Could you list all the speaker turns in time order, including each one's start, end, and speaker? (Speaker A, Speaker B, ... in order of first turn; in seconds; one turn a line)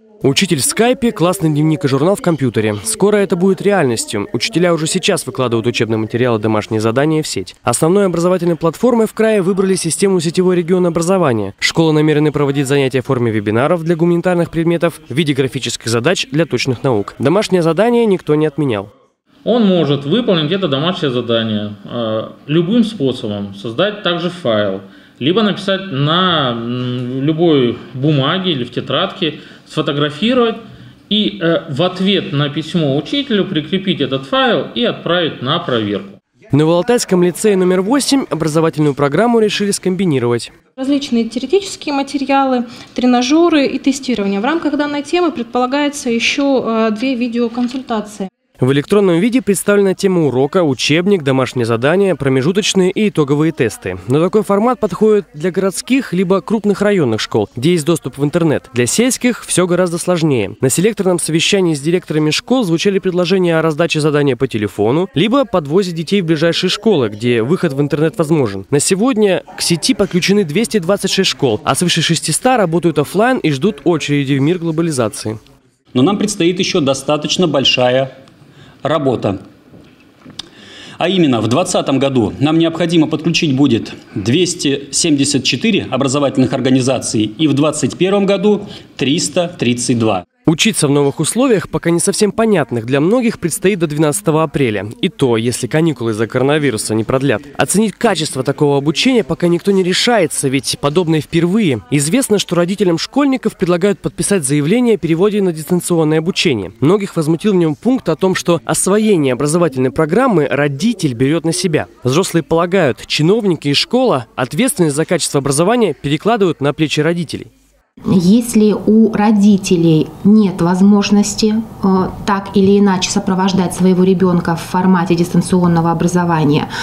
Speaker A: 0.2-18.9
Speaker B: 19.4-36.2
Speaker A: 36.5-40.5
Speaker C: 40.8-48.3
Speaker A: 48.6-75.4
Speaker D: 75.9-78.1
Speaker D: 78.8-79.4
Speaker D: 81.0-90.2
Speaker A: 90.5-117.5
Speaker E: 118.1-126.7